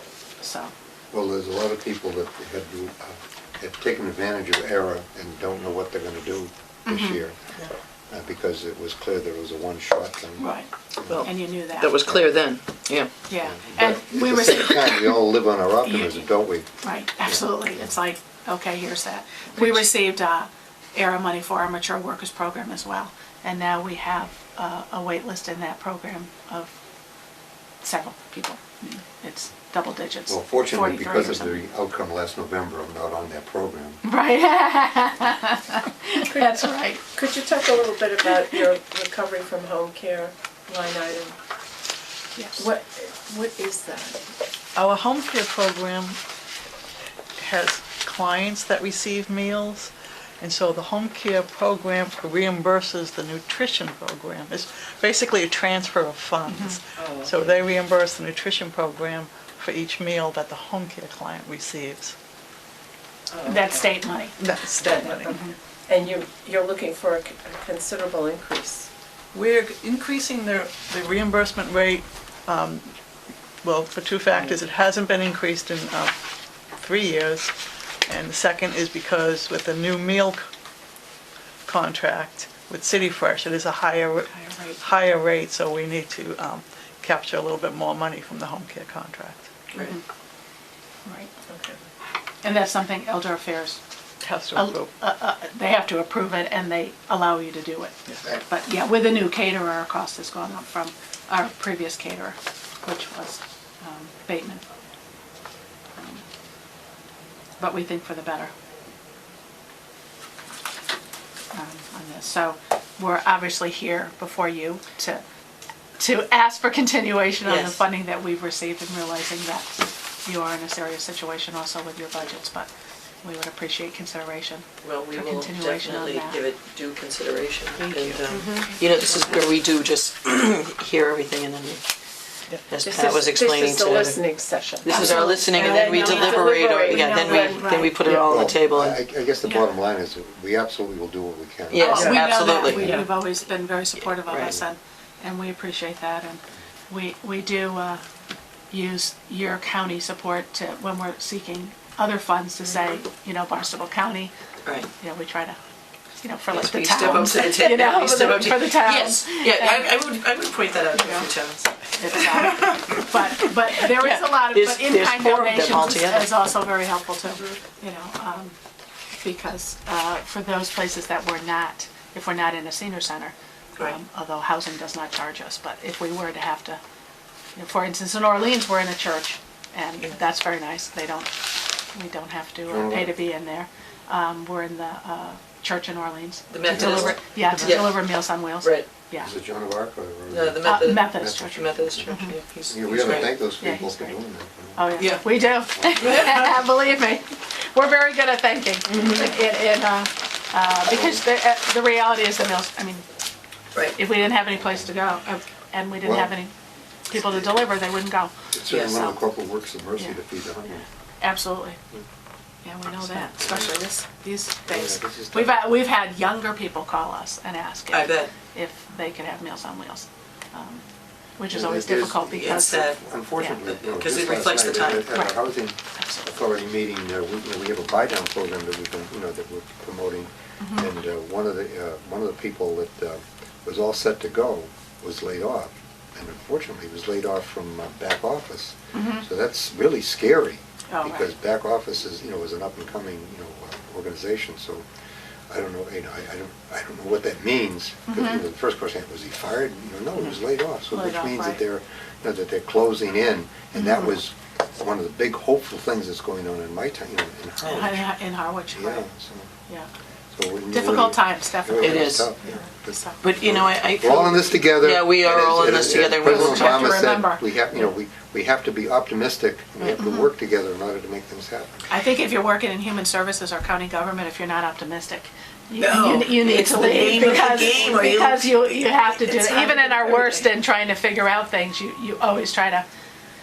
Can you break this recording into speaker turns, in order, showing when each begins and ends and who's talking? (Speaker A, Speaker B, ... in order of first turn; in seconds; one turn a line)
Speaker A: 0.4-0.7
Speaker B: 1.1-7.4
Speaker A: 6.9-7.2
Speaker B: 8.1-11.3
Speaker A: 10.4-10.7
Speaker C: 11.1-13.1
Speaker A: 11.2-11.9
Speaker B: 12.0-12.3
Speaker A: 13.3-14.9
Speaker B: 13.4-16.7
Speaker A: 15.8-16.2
Speaker A: 16.8-26.8
Speaker A: 27.8-31.6
Speaker B: 30.3-34.0
Speaker A: 34.0-37.0
Speaker D: 37.1-41.4
Speaker A: 42.4-42.6
Speaker D: 42.5-44.3
Speaker E: 44.8-46.2
Speaker E: 47.4-62.1
Speaker A: 56.5-56.8
Speaker D: 57.0-57.6
Speaker D: 63.3-64.0
Speaker A: 63.5-64.3
Speaker E: 64.3-65.3
Speaker D: 64.8-68.9
Speaker E: 69.3-72.9
Speaker E: 73.6-76.2
Speaker E: 76.8-77.5
Speaker E: 78.1-80.4
Speaker E: 81.7-89.5
Speaker A: 84.3-84.8
Speaker A: 89.8-90.0
Speaker A: 91.0-91.3
Speaker C: 91.5-91.8
Speaker A: 92.4-93.8
Speaker E: 94.2-94.9
Speaker A: 94.5-104.6
Speaker A: 106.0-106.2
Speaker A: 107.6-108.5
Speaker A: 111.5-115.2
Speaker A: 116.0-122.7
Speaker C: 117.5-117.8
Speaker A: 123.2-126.4
Speaker C: 124.8-131.8
Speaker A: 127.8-128.7
Speaker D: 128.3-128.8
Speaker C: 132.7-139.0
Speaker D: 132.8-137.9
Speaker A: 134.9-137.9
Speaker B: 138.0-142.2
Speaker C: 141.7-143.0
Speaker A: 141.7-148.0
Speaker D: 141.9-143.1
Speaker C: 144.2-144.6
Speaker A: 148.7-154.3
Speaker A: 154.9-155.6
Speaker A: 156.2-159.9
Speaker C: 156.5-166.4
Speaker A: 160.9-161.3
Speaker A: 162.0-168.6
Speaker A: 169.1-176.8
Speaker A: 177.6-189.3
Speaker B: 182.7-183.1
Speaker C: 186.5-188.9
Speaker B: 186.7-187.2
Speaker B: 189.2-192.2
Speaker C: 190.3-193.3
Speaker A: 190.6-192.3
Speaker B: 192.7-196.5
Speaker A: 193.6-194.2
Speaker A: 194.8-203.1
Speaker C: 195.0-195.2
Speaker C: 195.9-196.5
Speaker C: 198.9-199.3
Speaker B: 200.9-201.2
Speaker A: 203.9-206.5
Speaker B: 206.0-206.3
Speaker A: 207.1-208.3
Speaker B: 207.1-207.6
Speaker B: 208.5-210.8
Speaker C: 208.7-209.2
Speaker A: 211.2-211.8
Speaker A: 212.6-220.8
Speaker C: 212.9-213.7
Speaker B: 214.7-215.6
Speaker C: 217.9-218.3
Speaker A: 221.4-223.6
Speaker B: 221.5-244.8
Speaker C: 222.4-223.0
Speaker C: 223.5-225.1
Speaker A: 225.1-225.4
Speaker A: 225.9-226.3
Speaker A: 230.6-230.9
Speaker A: 238.9-239.2
Speaker A: 240.9-241.3
Speaker B: 245.5-258.1
Speaker A: 248.1-248.4
Speaker A: 250.9-251.6
Speaker A: 253.7-254.1
Speaker A: 257.6-259.1
Speaker B: 258.7-259.5
Speaker B: 260.3-271.9
Speaker A: 260.7-263.3
Speaker C: 261.8-262.3
Speaker C: 263.2-267.0
Speaker A: 266.2-267.8
Speaker A: 269.9-270.2
Speaker A: 271.9-282.9
Speaker C: 275.8-280.4
Speaker B: 276.9-278.3